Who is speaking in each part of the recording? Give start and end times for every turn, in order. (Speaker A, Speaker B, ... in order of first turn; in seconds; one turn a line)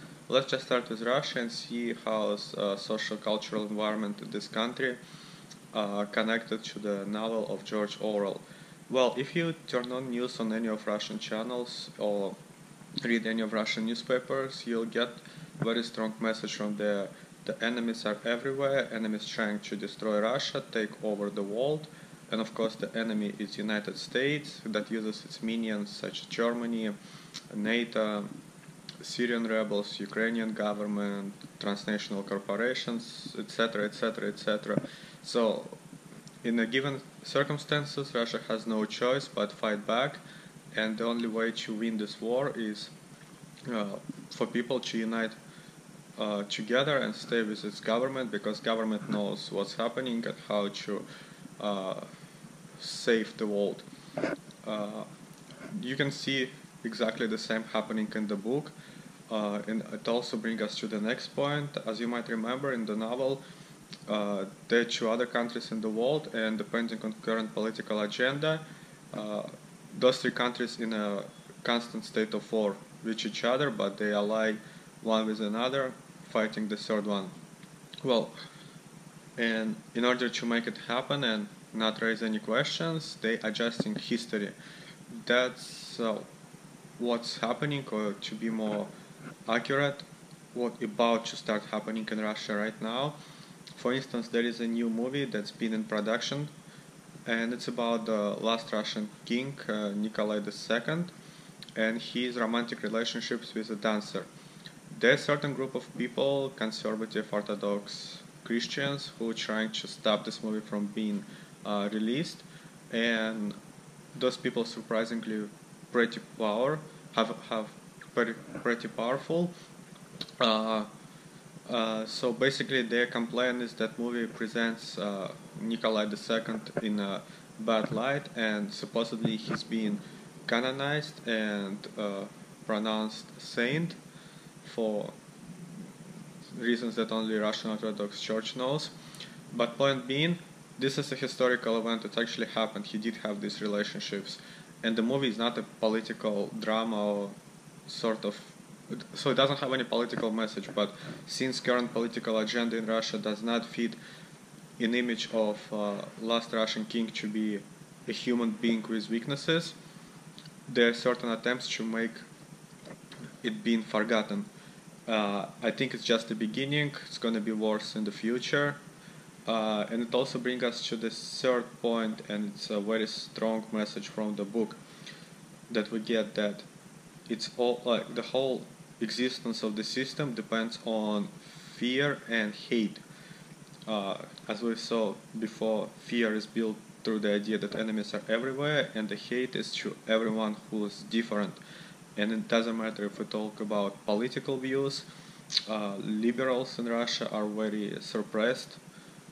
Speaker A: 0.3-5.0
Speaker A: 5.7-12.4
Speaker A: 13.0-26.9
Speaker A: 27.5-28.3
Speaker A: 29.0-35.8
Speaker A: 36.4-40.2
Speaker A: 40.7-42.9
Speaker A: 43.7-45.4
Speaker A: 46.2-51.0
Speaker A: 51.6-52.1
Speaker A: 52.8-53.9
Speaker A: 54.6-55.1
Speaker A: 55.7-58.7
Speaker A: 59.3-63.4
Speaker A: 64.1-77.3
Speaker A: 78.0-78.4
Speaker A: 79.4-84.6
Speaker A: 85.1-86.3
Speaker A: 87.0-88.9
Speaker A: 89.5-93.2
Speaker A: 93.7-96.5
Speaker A: 97.3-101.1
Speaker A: 101.8-104.3
Speaker A: 104.9-113.6
Speaker A: 114.2-119.5
Speaker A: 120.4-120.9
Speaker A: 121.7-134.0
Speaker A: 134.6-135.2
Speaker A: 136.6-138.9
Speaker A: 139.5-147.3
Speaker A: 147.9-154.0
Speaker A: 154.8-159.8
Speaker A: 160.7-162.3
Speaker A: 163.4-164.5
Speaker A: 165.1-168.8
Speaker A: 169.5-174.8
Speaker A: 175.7-176.7
Speaker A: 177.3-183.0
Speaker A: 183.9-191.6
Speaker A: 192.2-195.1
Speaker A: 195.7-198.8